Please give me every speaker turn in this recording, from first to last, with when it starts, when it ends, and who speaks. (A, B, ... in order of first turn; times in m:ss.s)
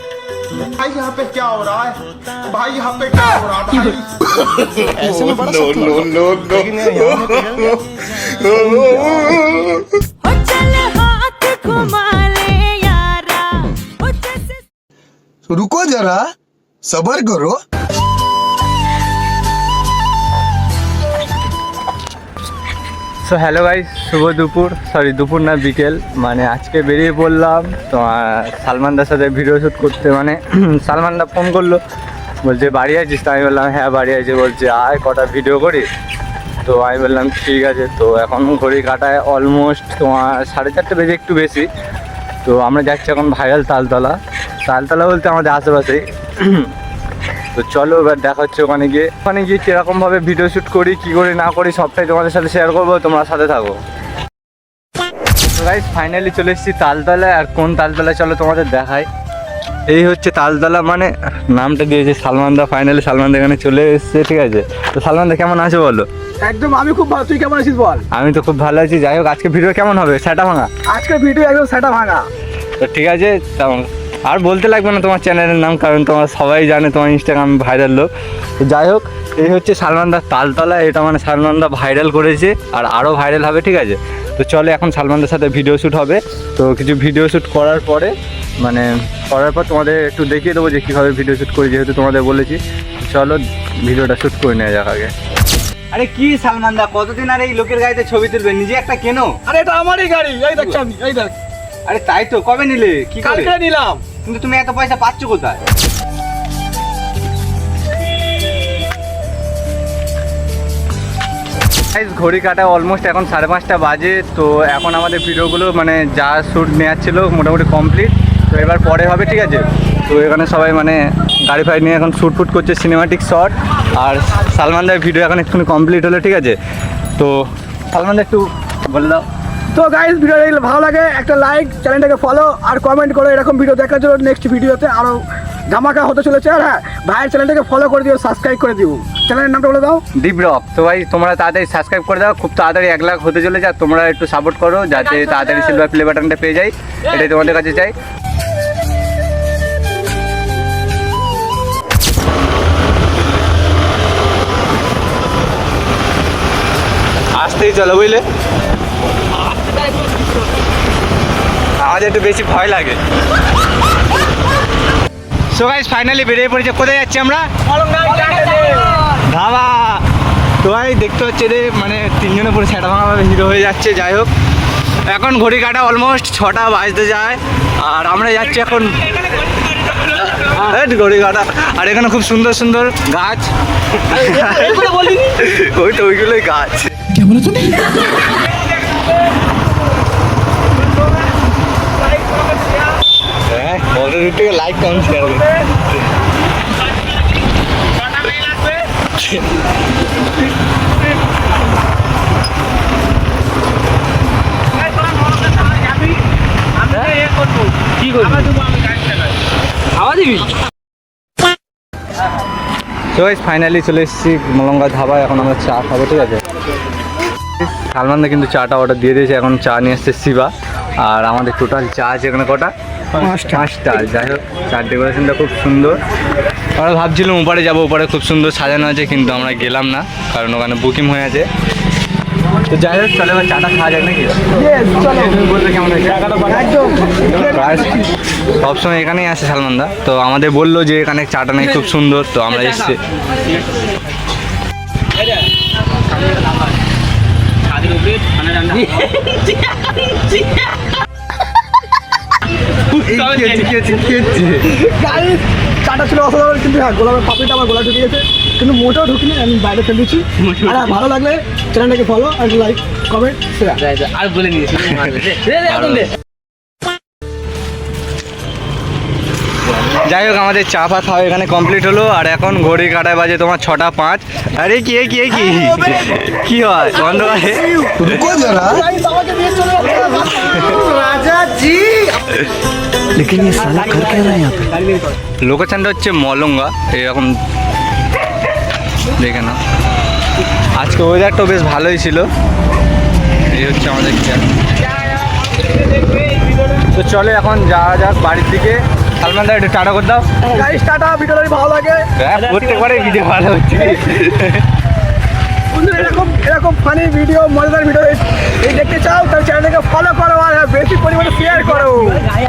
0:00.8-0:02.0 A
0:02.5-0:04.0 A
0:05.0-0:06.2 B
0:05.0-0:07.8 A
0:08.3-0:09.8 A
0:08.7-0:09.2 B
0:10.2-0:14.6 C
0:15.5-0:16.3 A
0:16.8-0:17.6 A
0:23.2-0:31.8 D
0:32.4-0:35.9 D
0:36.6-0:41.7 D
0:42.4-0:46.7 D
0:47.6-0:53.8 D
0:55.5-0:59.1 D
0:59.9-1:06.1 D
1:06.4-1:08.0 E
1:08.1-1:10.7 D
1:10.9-1:12.3 E
1:12.8-1:18.1 D
1:18.6-1:35.1 D
1:35.9-1:39.4 D
1:39.4-1:41.3 E
1:41.8-1:43.5 D
1:43.2-1:44.0 E
1:44.2-1:45.6 D
1:51.9-2:06.6 D
2:07.2-2:09.2 D
2:09.7-2:20.0 E
2:20.2-2:27.9 D
2:37.4-2:38.2 D
2:41.8-2:43.0 D
2:45.5-2:47.5 D
2:47.9-2:48.7 E
2:49.0-2:50.0 D
2:50.6-2:54.3 D
2:55.1-3:07.2 D
3:13.5-3:15.6 D
3:18.1-3:19.5 D
3:27.2-3:29.0 C
3:28.0-3:28.5 D
3:30.0-3:30.5 C
3:33.1-3:36.4 D
3:37.6-3:40.5 D
3:41.0-3:42.7 D
3:43.2-3:43.6 E
3:43.3-3:46.0 D
3:46.8-3:51.4 D
3:52.7-3:54.4 D
3:54.6-3:55.3 E
3:55.0-3:56.7 D
3:56.6-3:57.4 E
3:57.3-3:58.0 D
3:58.6-4:03.0 D
4:08.2-4:09.2 C
4:12.9-4:14.8 D
4:14.8-4:23.9 E
4:23.9-4:24.7 C
4:24.6-4:26.1 D
4:30.0-4:38.0 D
4:38.0-4:38.8 A
4:38.1-4:40.8 E
4:40.6-4:42.1 D
4:43.2-4:44.7 B
4:45.4-4:47.4 D
4:49.1-4:49.6 D
4:50.8-4:52.3 D
4:53.5-4:54.4 D
4:56.9-5:00.3 D
5:00.4-5:02.0 E
5:02.2-5:04.6 D
5:05.7-5:12.2 E